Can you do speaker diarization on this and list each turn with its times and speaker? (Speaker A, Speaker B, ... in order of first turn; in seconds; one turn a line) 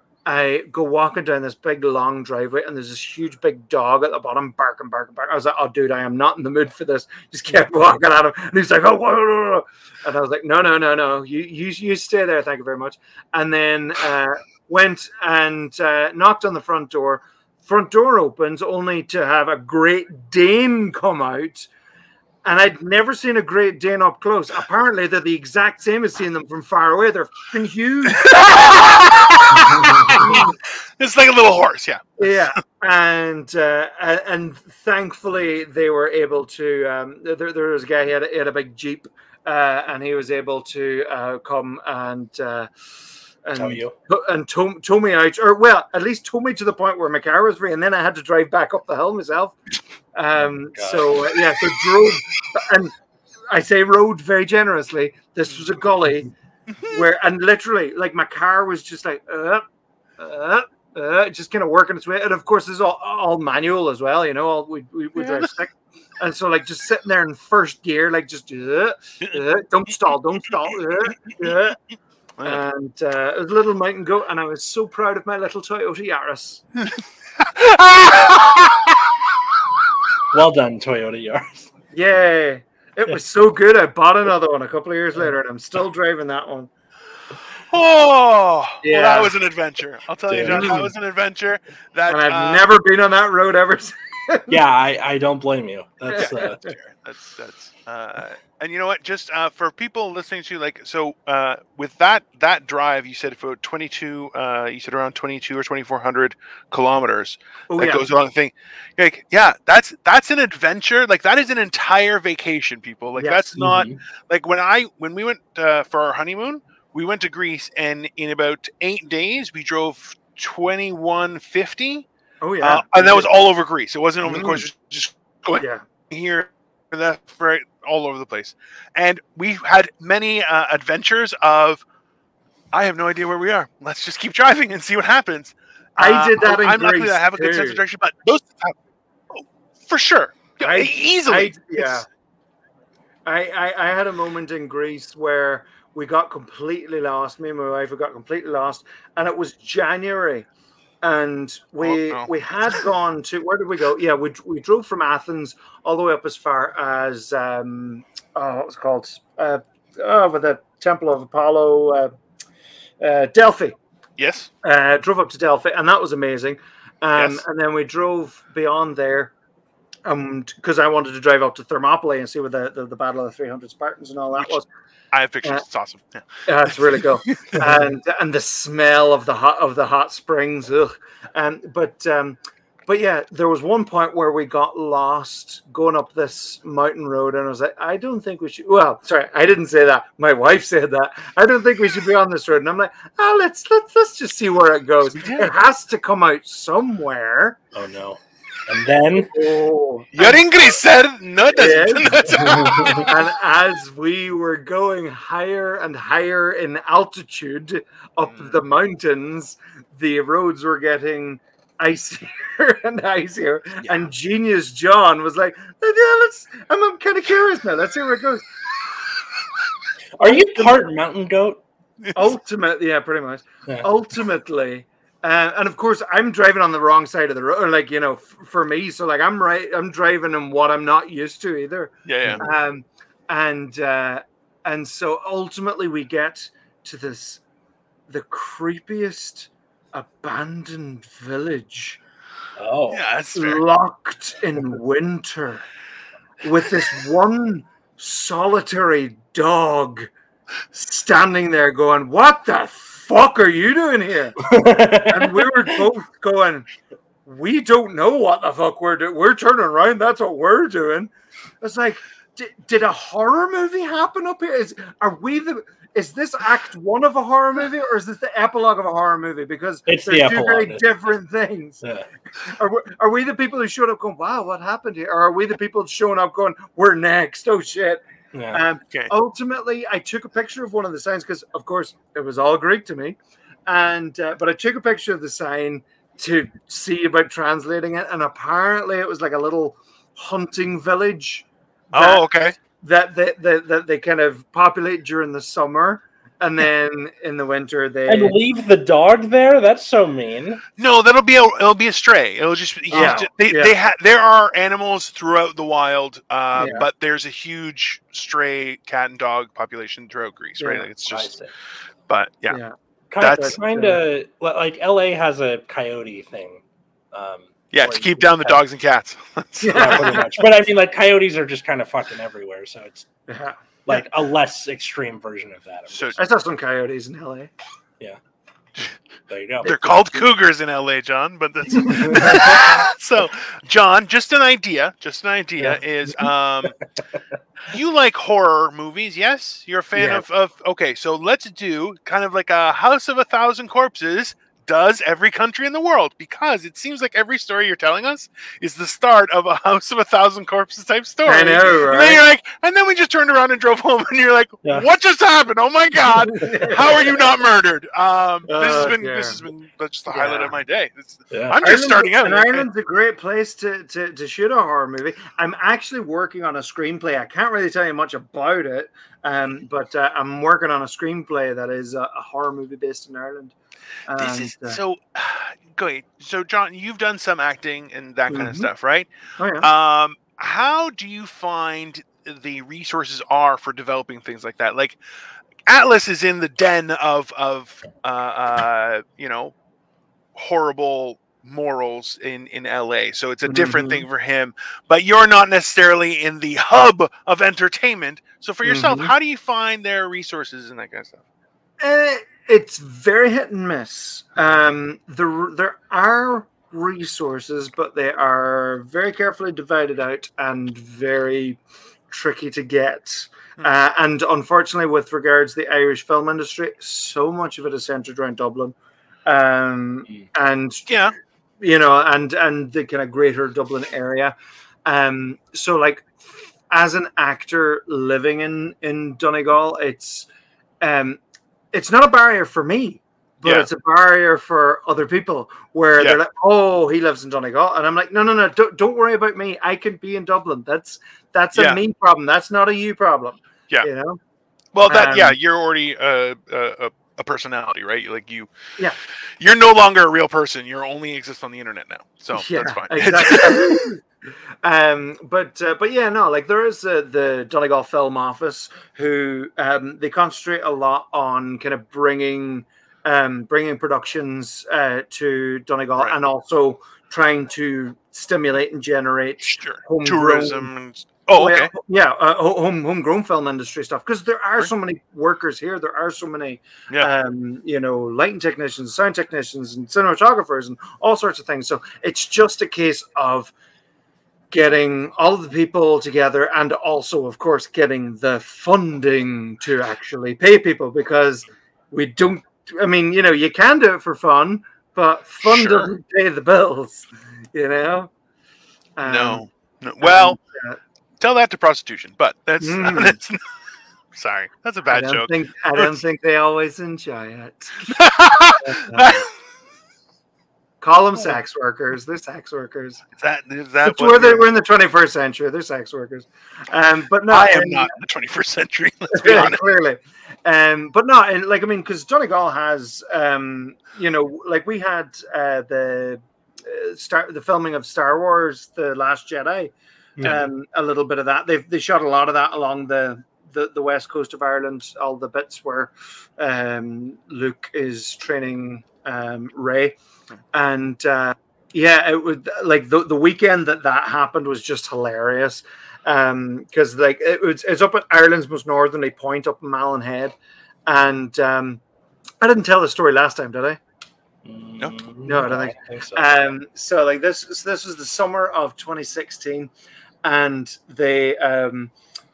Speaker A: 0.2-21.7
Speaker A: 22.4-28.7
Speaker B: 28.1-32.5
Speaker A: 29.8-30.6
Speaker A: 32.2-42.7
Speaker A: 43.4-49.5
Speaker C: 43.6-43.9
Speaker A: 50.1-52.9
Speaker C: 50.7-51.2
Speaker A: 53.5-56.3
Speaker A: 56.9-59.6
Speaker A: 60.2-71.8
Speaker B: 65.2-65.5
Speaker A: 72.4-76.6
Speaker B: 76.8-79.0
Speaker C: 80.3-81.7
Speaker A: 81.9-86.7
Speaker B: 87.7-92.7
Speaker A: 88.8-89.3
Speaker C: 90.3-90.7
Speaker A: 90.4-90.9
Speaker A: 92.1-94.6
Speaker C: 94.5-96.6
Speaker A: 96.1-96.7
Speaker B: 96.1-122.1
Speaker A: 107.7-108.1
Speaker A: 113.2-113.5
Speaker C: 113.5-114.0
Speaker A: 122.4-123.3
Speaker B: 122.6-131.8
Speaker A: 124.2-124.7
Speaker A: 125.6-125.8
Speaker B: 132.7-138.8
Speaker A: 136.0-137.8
Speaker B: 139.3-142.0
Speaker A: 140.6-142.1
Speaker A: 143.2-150.5
Speaker A: 151.0-162.1
Speaker B: 151.8-152.3
Speaker A: 163.0-163.8
Speaker B: 164.2-164.5
Speaker A: 164.6-169.3
Speaker B: 167.1-167.4
Speaker A: 170.0-174.7
Speaker B: 175.1-176.3
Speaker A: 176.5-197.6
Speaker B: 195.2-195.5
Speaker C: 197.7-199.3
Speaker A: 199.2-200.7
Speaker B: 200.1-203.1
Speaker A: 201.5-218.5
Speaker C: 202.3-203.0
Speaker C: 220.2-221.6
Speaker A: 220.3-220.8
Speaker A: 222.1-237.4
Speaker B: 232.1-232.4
Speaker A: 238.1-242.0
Speaker C: 242.6-243.0
Speaker B: 242.9-243.6
Speaker A: 243.3-245.6
Speaker A: 246.4-250.1
Speaker A: 250.7-256.7
Speaker C: 254.4-255.5
Speaker A: 257.2-271.8
Speaker C: 269.9-270.9
Speaker A: 272.4-292.3
Speaker C: 278.3-278.6
Speaker B: 291.9-292.6
Speaker A: 292.8-298.4
Speaker C: 298.1-300.6
Speaker B: 300.8-311.3
Speaker A: 302.9-303.7
Speaker A: 306.5-306.9
Speaker A: 310.6-310.9
Speaker C: 311.1-311.5
Speaker B: 312.1-312.6
Speaker A: 312.5-314.0
Speaker C: 313.1-318.5
Speaker B: 313.2-313.6
Speaker B: 317.7-320.2
Speaker A: 319.6-320.4
Speaker C: 319.7-323.1
Speaker A: 323.3-324.1
Speaker C: 323.9-326.2
Speaker B: 325.9-326.2
Speaker A: 326.2-327.5
Speaker C: 329.3-330.2
Speaker B: 329.6-336.8
Speaker C: 331.9-332.1
Speaker A: 332.1-332.8
Speaker B: 337.7-362.7
Speaker A: 339.9-340.2
Speaker A: 351.2-352.2
Speaker A: 356.2-357.2
Speaker A: 358.5-359.4
Speaker A: 360.1-360.6
Speaker C: 361.3-361.6
Speaker A: 361.6-373.5
Speaker A: 374.1-374.8
Speaker B: 374.2-379.1
Speaker A: 378.3-378.7
Speaker A: 379.4-379.7
Speaker B: 379.6-385.0
Speaker B: 385.7-389.5
Speaker B: 390.3-401.2
Speaker A: 393.4-394.1
Speaker A: 398.6-399.1
Speaker A: 401.8-420.9
Speaker B: 420.9-421.1
Speaker A: 421.6-430.3
Speaker A: 430.8-431.2
Speaker A: 431.7-444.2
Speaker B: 441.5-441.8
Speaker B: 444.7-448.5
Speaker A: 444.9-445.4
Speaker B: 449.4-453.8
Speaker A: 452.3-454.0
Speaker A: 454.6-470.7
Speaker B: 469.5-471.7
Speaker A: 471.3-483.5
Speaker A: 484.5-498.1
Speaker B: 495.4-495.9
Speaker A: 499.0-499.4
Speaker B: 499.0-500.4
Speaker A: 500.0-500.8
Speaker B: 501.2-503.4
Speaker A: 502.6-503.2
Speaker B: 504.1-506.0
Speaker A: 504.9-508.0
Speaker B: 507.9-509.3
Speaker A: 508.6-509.2
Speaker A: 510.8-513.0
Speaker B: 513.1-514.5
Speaker A: 513.8-517.9
Speaker B: 517.3-519.6
Speaker A: 519.1-540.0
Speaker C: 530.2-530.4
Speaker A: 540.5-550.4
Speaker A: 550.9-551.8
Speaker A: 552.4-553.8
Speaker C: 554.4-556.3
Speaker A: 555.2-559.7
Speaker A: 560.2-561.9